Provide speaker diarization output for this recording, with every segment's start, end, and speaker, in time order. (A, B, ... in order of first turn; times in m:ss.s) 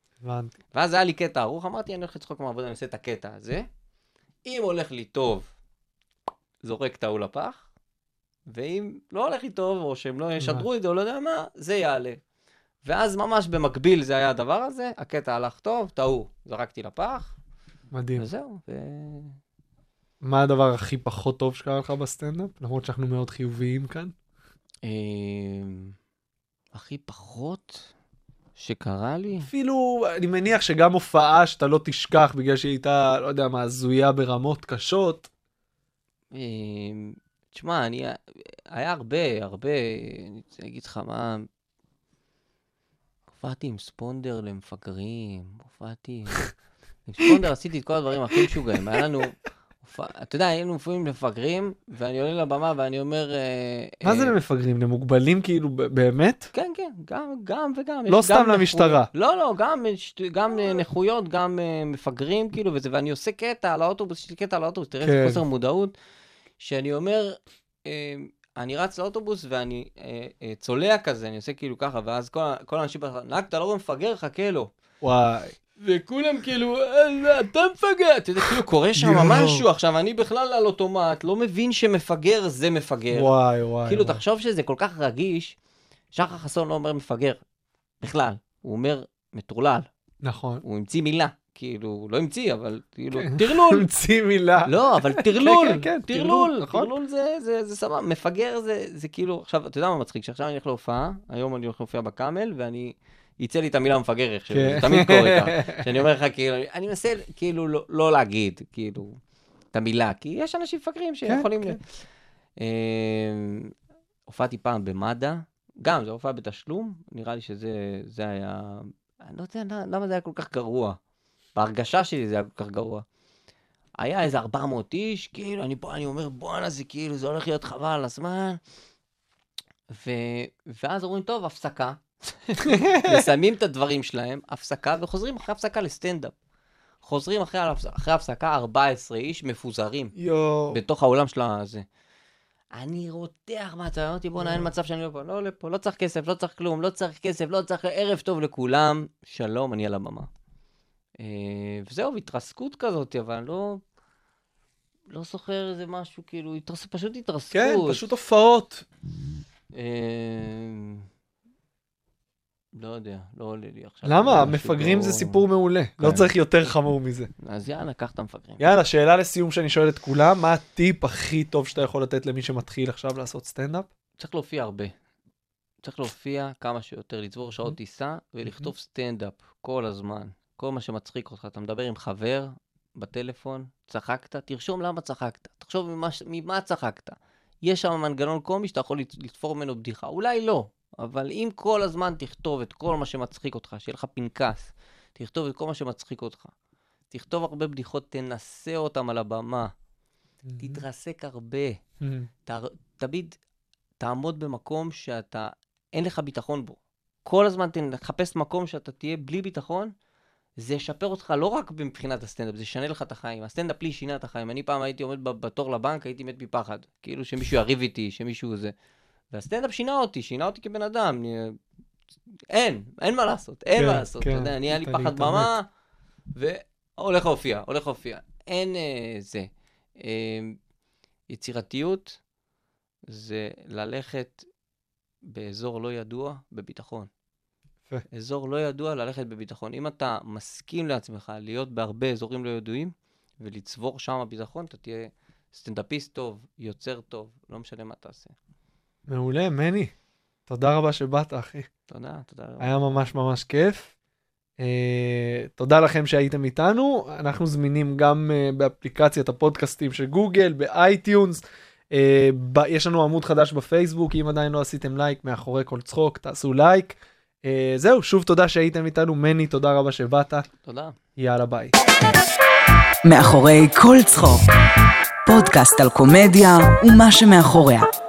0:00.2-0:00.6 A
0:00.7-0:03.7 B
0:04.4-0:05.5 B
0:06.6-0:07.6 B
0:08.5-0:12.2 B
0:10.4-0:10.6 A
0:12.8-0:17.3 B
0:17.9-0:18.3 A
0:18.2-0:19.4 B
0:20.2-0:24.1 A
0:24.8-0:26.0 B
0:26.7-0:27.9 B
0:28.6-0:29.5 B
0:29.4-0:35.3 A
0:36.3-0:38.2 B
0:38.7-0:41.4 B
0:43.3-0:46.5 B
0:47.0-0:54.4 B
0:54.0-0:56.5 A
0:56.5-1:05.9 B
0:58.1-0:59.1 A
1:05.0-1:05.4 A
1:06.6-1:14.7 B
1:15.0-1:15.5 A
1:15.8-1:23.3 B
1:19.0-1:19.6 A
1:23.1-1:24.2 A
1:23.8-1:25.6 B
1:26.1-1:27.4 B
1:28.0-1:29.9 B
1:30.2-1:30.6 A
1:30.6-1:33.9 B
1:33.1-1:36.9 A
1:34.6-1:49.2 B
1:44.5-1:45.9 A
1:49.7-1:52.0 B
1:51.3-1:51.8 A
1:52.6-1:53.7 B
1:54.3-2:01.0 B
2:01.6-2:03.0 B
2:04.0-2:08.6 B
2:09.9-2:16.3 B
2:12.6-2:13.3 A
2:17.0-2:20.1 B
2:20.1-2:20.8 A
2:20.7-2:21.8 B
2:22.7-2:30.3 B
2:24.4-2:24.7 A
2:31.2-2:33.8 B
2:35.1-2:38.0 B
2:37.5-2:38.8 A
2:39.7-2:41.1 B
2:42.7-2:45.4 B
2:44.0-2:47.3 A
2:46.0-2:46.3 B
2:47.4-2:48.6 B
2:48.6-2:53.9 A
2:54.2-2:54.9 B
2:55.8-3:16.5 B
3:17.1-3:19.7 B
3:20.4-3:20.8 A
3:20.6-3:21.8 B
3:22.0-3:22.3 A
3:22.4-3:23.4 B
3:24.0-3:29.9 B
3:30.6-3:38.7 B
3:39.3-3:41.6 B
3:42.5-3:45.6 B
3:43.8-3:45.5 A
3:46.3-3:49.5 B
3:50.0-3:50.6 B
3:51.3-3:52.2 B
3:53.1-3:54.4 B
3:55.2-3:57.1 B
3:58.1-4:08.3 B
4:09.1-4:09.9 A
4:10.5-4:11.7 A
4:11.9-4:13.0 B
4:12.6-4:13.9 A
4:14.6-4:30.4 A
4:30.6-4:30.9 B
4:31.2-4:31.7 A
4:33.0-4:34.4 C
4:35.2-4:37.9 C